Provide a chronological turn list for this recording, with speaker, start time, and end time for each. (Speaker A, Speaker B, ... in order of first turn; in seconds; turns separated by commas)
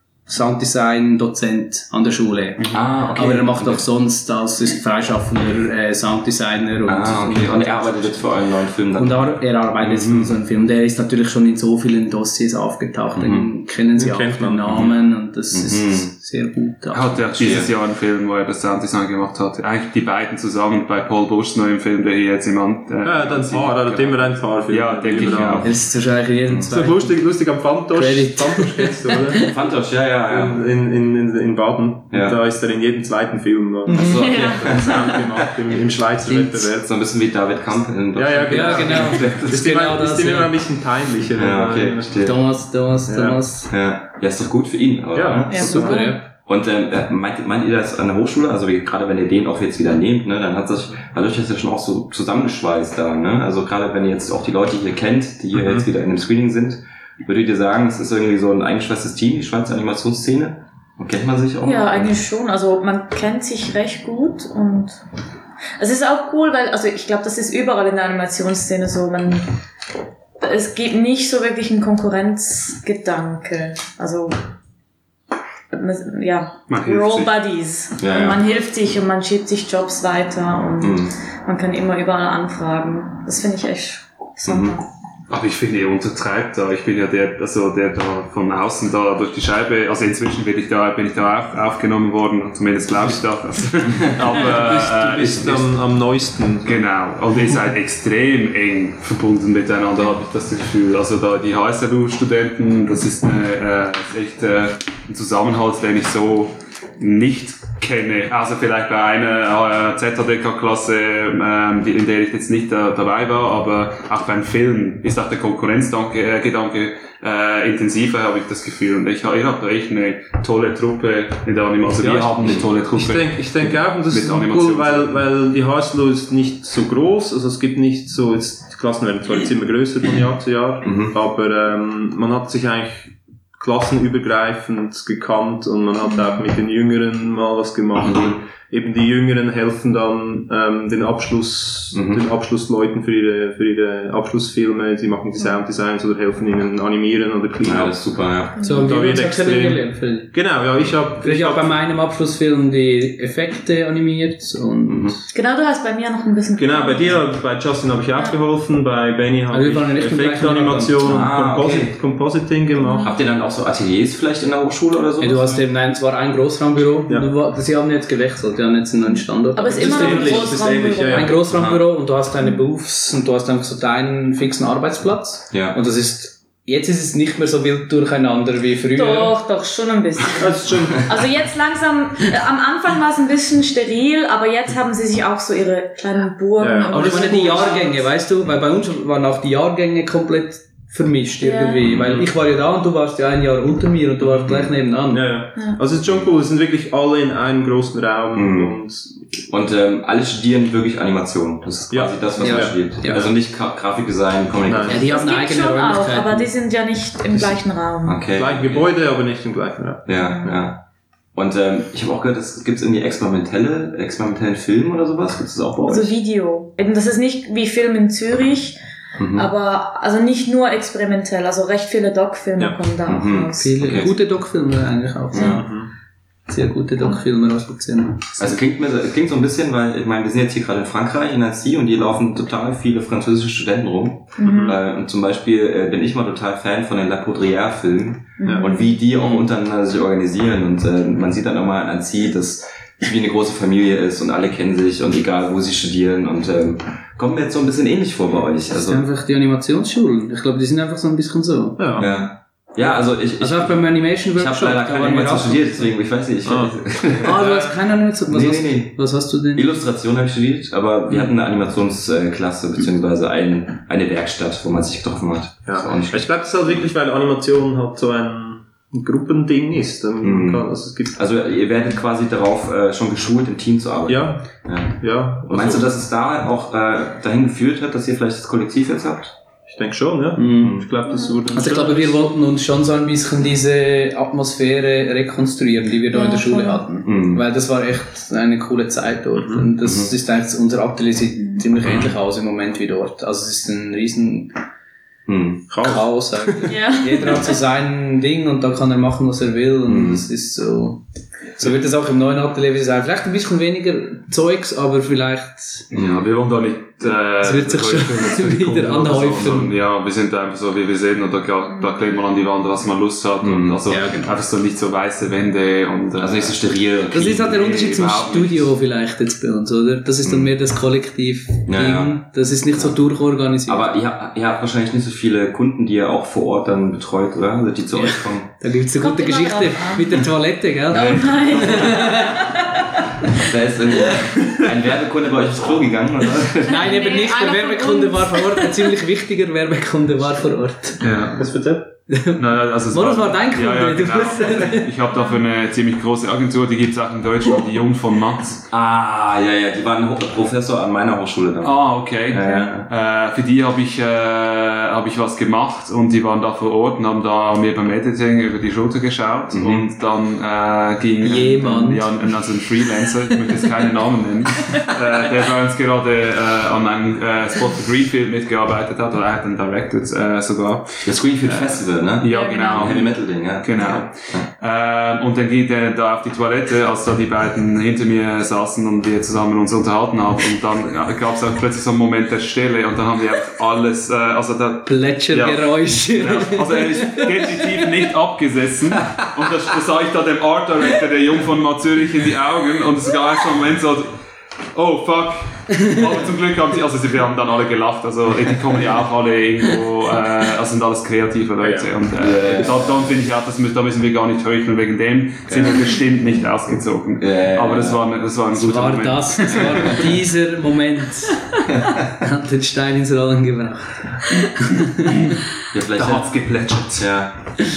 Speaker A: 0.3-8.2, Speaker B: 2.7-3.8, Speaker B: 6.8-10.3, Speaker A: 8.9-17.2, Speaker B: 13.2-13.5, Speaker C: 13.9-14.8, Speaker B: 15.5-16.1, Speaker D: 16.9-25.8, Speaker B: 17.4-17.7, Speaker C: 23.0-25.7, Speaker A: 25.6-27.3, Speaker C: 26.7-29.4, Speaker A: 27.9-29.5, Speaker B: 29.3-30.6, Speaker C: 30.2-36.9, Speaker B: 33.9-35.5, Speaker E: 33.9-35.2, Speaker B: 36.8-39.5, Speaker C: 38.1-42.1, Speaker A: 38.5-40.5, Speaker B: 41.3-42.4, Speaker A: 42.2-43.7, Speaker C: 43.1-43.4, Speaker B: 43.7-62.1, Speaker C: 45.1-46.1, Speaker E: 45.5-46.2, Speaker A: 45.6-46.2, Speaker C: 55.5-55.9, Speaker E: 61.6-65.0, Speaker E: 65.8-69.5, Speaker E: 70.4-74.4, Speaker E: 75.7-84.8, Speaker D: 76.7-77.4, Speaker B: 78.0-78.4, Speaker B: 80.8-81.2, Speaker B: 84.5-84.8, Speaker D: 85.3-95.8, Speaker C: 94.2-96.8, Speaker D: 96.6-125.2, Speaker C: 121.9-148.0, Speaker B: 122.4-122.7, Speaker B: 130.8-131.1, Speaker B: 138.0-138.3, Speaker B: 141.9-142.2, Speaker B: 147.6-148.6, Speaker E: 148.6-148.9, Speaker A: 148.6-150.5, Speaker C: 148.7-151.8, Speaker A: 151.2-155.2, Speaker B: 154.9-155.2, Speaker E: 155.3-157.3, Speaker C: 156.6-163.2, Speaker A: 159.5-161.1, Speaker B: 161.0-162.0, Speaker E: 162.8-163.2, Speaker B: 163.0-165.7, Speaker A: 165.2-179.3, Speaker E: 169.5-171.3, Speaker C: 169.7-171.4, Speaker B: 171.4-171.8, Speaker B: 175.5-175.8, Speaker E: 178.9-188.0, Speaker C: 180.3-181.2, Speaker C: 186.6-187.7, Speaker A: 186.9-195.3, Speaker E: 191.4-191.8, Speaker B: 191.8-192.3, Speaker B: 194.4-194.7, Speaker C: 195.1-199.4, Speaker B: 198.3-198.8, Speaker B: 199.5-205.1, Speaker C: 201.9-202.9, Speaker A: 202.4-203.3, Speaker C: 204.6-205.0, Speaker A: 204.8-206.5, Speaker E: 205.0-208.2, Speaker B: 207.3-208.9, Speaker C: 208.3-210.6, Speaker B: 210.1-210.8, Speaker E: 210.2-210.5, Speaker B: 211.3-216.2, Speaker E: 215.8-218.8, Speaker B: 219.2-219.5, Speaker E: 219.3-224.1, Speaker B: 223.0-224.1, Speaker A: 223.6-225.7, Speaker B: 225.3-225.6, Speaker C: 225.4-225.9, Speaker A: 226.5-228.6, Speaker B: 228.4-249.0, Speaker E: 234.4-234.8, Speaker C: 234.4-234.8, Speaker E: 238.4-239.0, Speaker C: 238.4-238.7, Speaker A: 248.7-252.1, Speaker C: 251.8-252.1, Speaker B: 252.0-257.4, Speaker A: 253.3-255.9, Speaker C: 256.4-257.8, Speaker A: 257.2-259.7, Speaker B: 258.3-266.8, Speaker C: 265.6-271.2, Speaker B: 270.2-279.4, Speaker C: 274.1-275.9, Speaker C: 279.7-282.2, Speaker A: 280.4-280.8, Speaker B: 280.6-280.9, Speaker E: 281.1-281.4, Speaker A: 281.5-294.6, Speaker E: 286.1-286.8, Speaker B: 287.0-287.4, Speaker C: 289.4-289.7, Speaker B: 289.8-290.1, Speaker B: 295.3-295.7, Speaker C: 295.7-296.7, Speaker A: 295.8-301.0, Speaker E: 296.7-297.6, Speaker B: 299.9-300.2, Speaker A: 301.6-305.9, Speaker D: 305.9-316.6, Speaker B: 305.9-306.3, Speaker A: 307.4-309.7, Speaker B: 313.4-313.8, Speaker A: 313.9-314.4, Speaker B: 316.2-317.6, Speaker A: 317.1-323.9, Speaker D: 317.4-318.7, Speaker B: 320.2-320.5, Speaker B: 321.7-322.9, Speaker B: 323.6-328.5, Speaker A: 327.9-332.4, Speaker E: 329.0-330.2, Speaker B: 330.9-331.9, Speaker E: 330.9-332.9, Speaker B: 333.3-337.0, Speaker D: 334.4-334.7, Speaker A: 336.6-341.1, Speaker E: 336.8-338.9, Speaker D: 341.0-341.4, Speaker C: 341.4-341.9, Speaker A: 342.1-344.9, Speaker D: 342.4-348.7, Speaker E: 345.1-345.4, Speaker B: 348.7-352.9, Speaker D: 351.6-394.2, Speaker E: 352.4-352.7, Speaker B: 359.5-359.9, Speaker A: 361.2-362.1, Speaker B: 371.0-374.5, Speaker E: 372.3-373.0, Speaker A: 384.8-387.8, Speaker D: 394.7-410.0, Speaker C: 401.6-401.9, Speaker B: 402.1-403.1, Speaker B: 405.5-405.7, Speaker B: 407.2-408.0, Speaker A: 408.5-411.6, Speaker B: 409.5-410.1, Speaker B: 411.7-412.1, Speaker A: 412.2-415.2, Speaker B: 415.7-417.5, Speaker D: 415.9-417.3